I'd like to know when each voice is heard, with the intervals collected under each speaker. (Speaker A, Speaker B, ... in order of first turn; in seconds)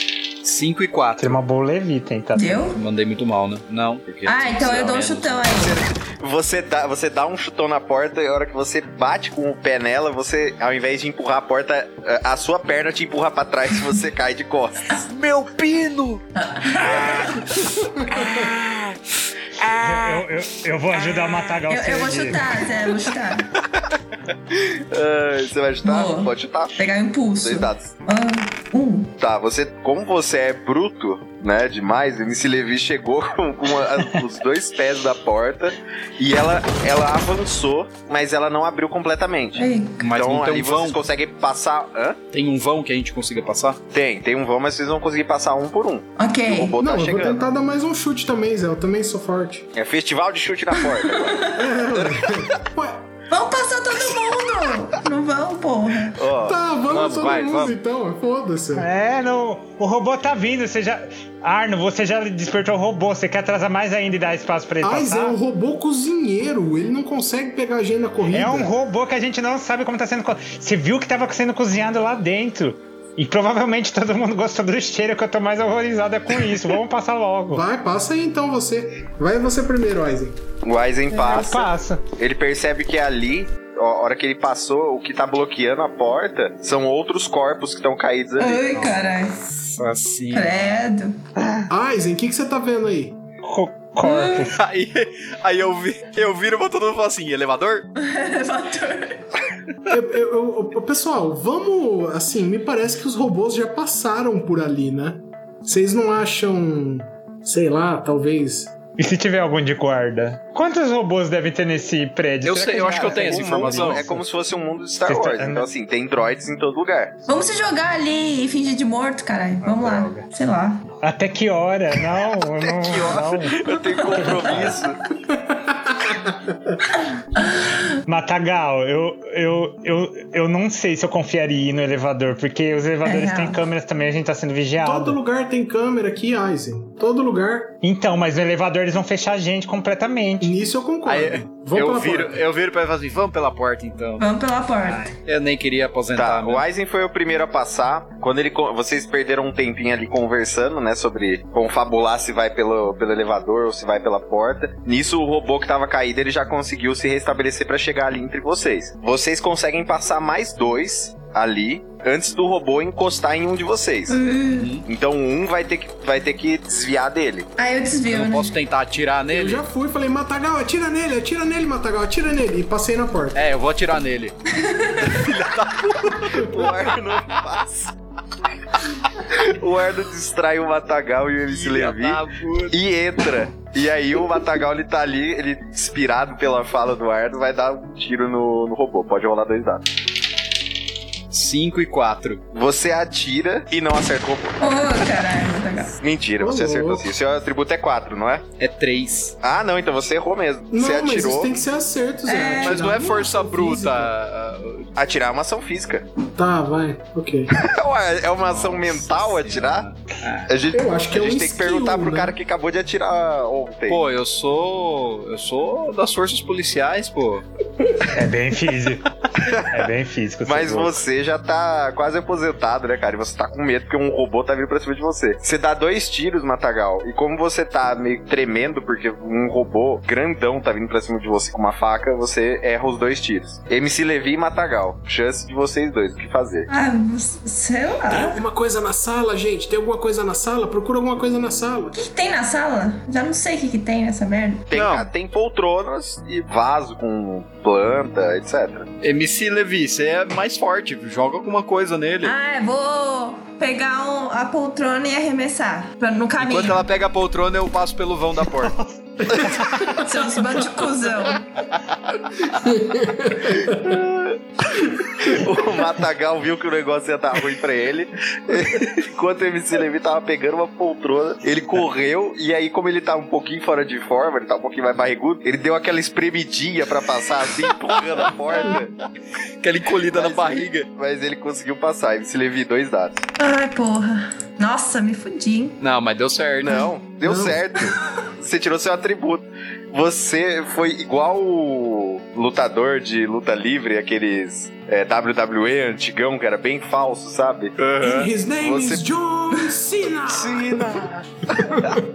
Speaker A: 0.4-1.4, 2.7-5.5, 14.9-16.2, 16.8-19.0, 19.6-21.6, 22.8-23.8, 40.0-41.0, 42.3-43.8, 56.9-57.7, 89.7-90.5, 94.5-97.9, 112.4-114.0, 141.1-144.2, 144.8-146.6, 164.5-164.8, 168.1-169.6, 173.3-174.4, 175.1-176.5, 181.5-182.8, 191.3-192.4, 198.6-199.3, 202.6-204.9, 208.4-210.5, 213.9-217.4, 244.7-245.1, 249.0-252.3, 256.4-258.8, 279.6-280.9, 285.8-286.9, 297.8-298.3
Speaker B: 1.2-2.7, 19.8-22.6, 58.7-65.3, 68.3-77.6, 81.2-82.0, 93.4-94.6, 109.0-114.2, 115.0-115.7, 119.6-120.2, 121.0-123.6, 124.2-124.8, 128.1-135.2, 137.8-140.5, 218.1-221.0, 258.6-260.0
Speaker C: 2.3-2.8, 4.2-5.8, 16.4-17.5, 21.7-23.5, 25.8-29.1, 39.5-40.1, 46.2-46.7, 50.9-51.5, 53.3-56.2, 88.4-89.7, 90.3-91.2, 94.0-94.5, 98.0-99.3, 117.3-120.9, 124.1-124.5, 127.4-127.7, 133.0-133.6, 144.2-145.1, 164.1-164.7, 167.6-168.5, 174.5-175.3, 194.6-195.9, 202.2-202.9, 236.7-238.4, 241.9-244.7, 252.2-256.8, 259.5-261.4, 283.4-285.8
Speaker D: 5.5-15.0, 24.5-26.8, 27.4-27.9, 29.2-42.2, 43.9-47.5, 49.7-52.5, 56.1-56.6, 80.6-88.7, 112.8-117.2, 122.6-125.0, 146.1-164.2, 164.8-167.5, 176.2-177.9, 179.3-189.8, 192.5-195.0, 196.0-198.4, 199.4-201.6, 204.9-206.0, 207.5-209.9, 210.5-214.0, 219.4-219.8, 220.4-236.7, 244.7-248.9, 263.8-264.4, 265.2-278.9, 280.1-283.2, 286.6-297.8, 298.6-299.1, 300.2-302.0
Speaker E: 18.0-18.3, 46.8-49.7, 51.5-53.1, 56.4-58.9, 64.8-68.7, 77.5-80.4, 91.7-93.2, 99.9-108.7, 125.3-126.8, 134.8-137.8, 140.4-142.4, 169.3-173.4, 196.4-197.1, 200.7-204.1, 206.3-207.5, 210.7-212.3, 238.1-241.9, 262.6-264.0, 287.2-287.8, 298.0-302.0